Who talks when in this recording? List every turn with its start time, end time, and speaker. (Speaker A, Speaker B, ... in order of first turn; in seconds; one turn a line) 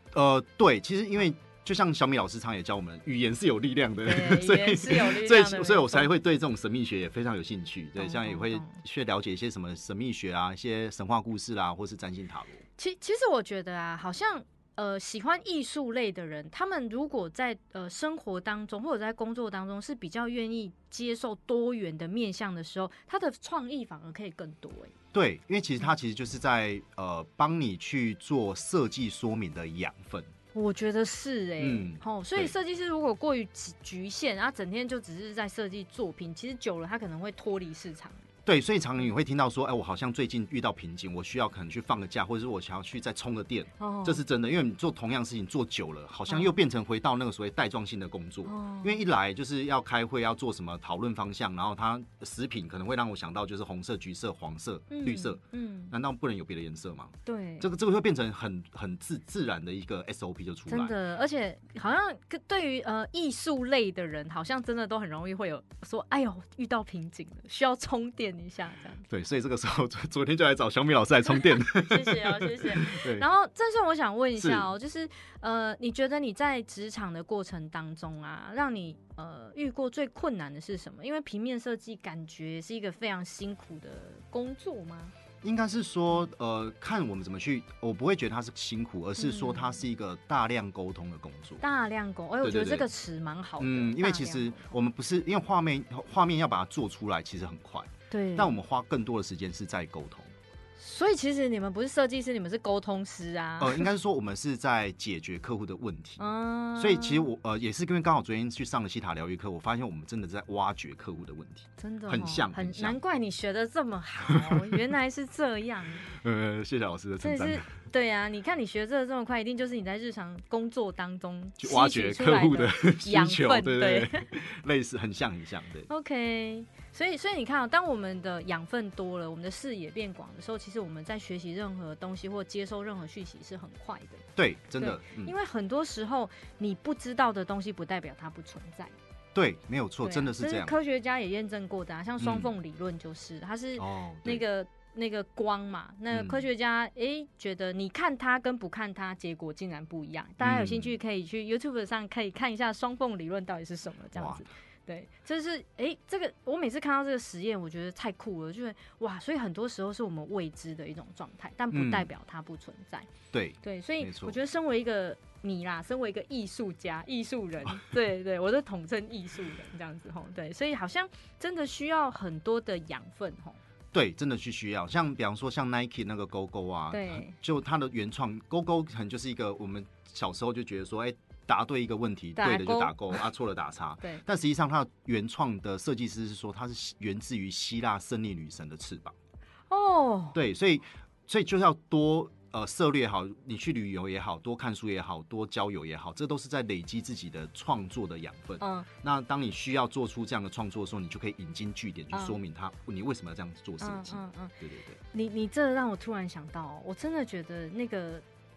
Speaker A: 0.1-12.6
Speaker B: 4.0-6.1
Speaker B: 8.0-8.8
Speaker B: 12.8-24.9
Speaker A: 25.1-30.3
Speaker B: 30.5-38.2
Speaker A: 31.6-32.5
Speaker A: 38.5-60.9
Speaker B: 43.8-44.2
Speaker B: 48.5-49.0
Speaker B: 54.9-55.9
Speaker B: 57.3-57.7
Speaker B: 60.7-69.1
Speaker A: 69.1-73.3
Speaker B: 71.3-85.1
Speaker A: 74.4-74.7
Speaker A: 85.4-91.6
Speaker B: 89.2-89.8
Speaker B: 91.6-94.7
Speaker A: 92.4-92.9
Speaker A: 93.6-100.3
Speaker B: 98.1-98.6
Speaker B: 100.8-103.9
Speaker A: 103.6-106.2
Speaker B: 106.2-107.3
Speaker A: 106.8-113.0
Speaker B: 111.8-116.1
Speaker A: 114.3-114.9
Speaker A: 116.1-117.7
Speaker B: 117.2-124.3
Speaker A: 121.6-125.9
Speaker B: 125.9-134.2
Speaker A: 134.4-135.3
Speaker B: 134.8-138.9
Speaker A: 139.3-140.8
Speaker B: 140.0-163.1
Speaker A: 142.2-142.5
Speaker A: 143.8-144.4
Speaker A: 146.1-146.4
Speaker A: 150.4-150.9
Speaker A: 154.2-154.4
Speaker A: 161.7-162.1
Speaker A: 163.3-164.4
Speaker B: 163.6-173.6
Speaker A: 173.9-189.2
Speaker B: 176.9-177.4
Speaker B: 182.4-183.2
Speaker B: 189.7-190.4
Speaker A: 190.3-205.0
Speaker B: 198.6-198.9
Speaker B: 202.1-202.4
Speaker B: 203.8-204.6
Speaker B: 205.1-208.2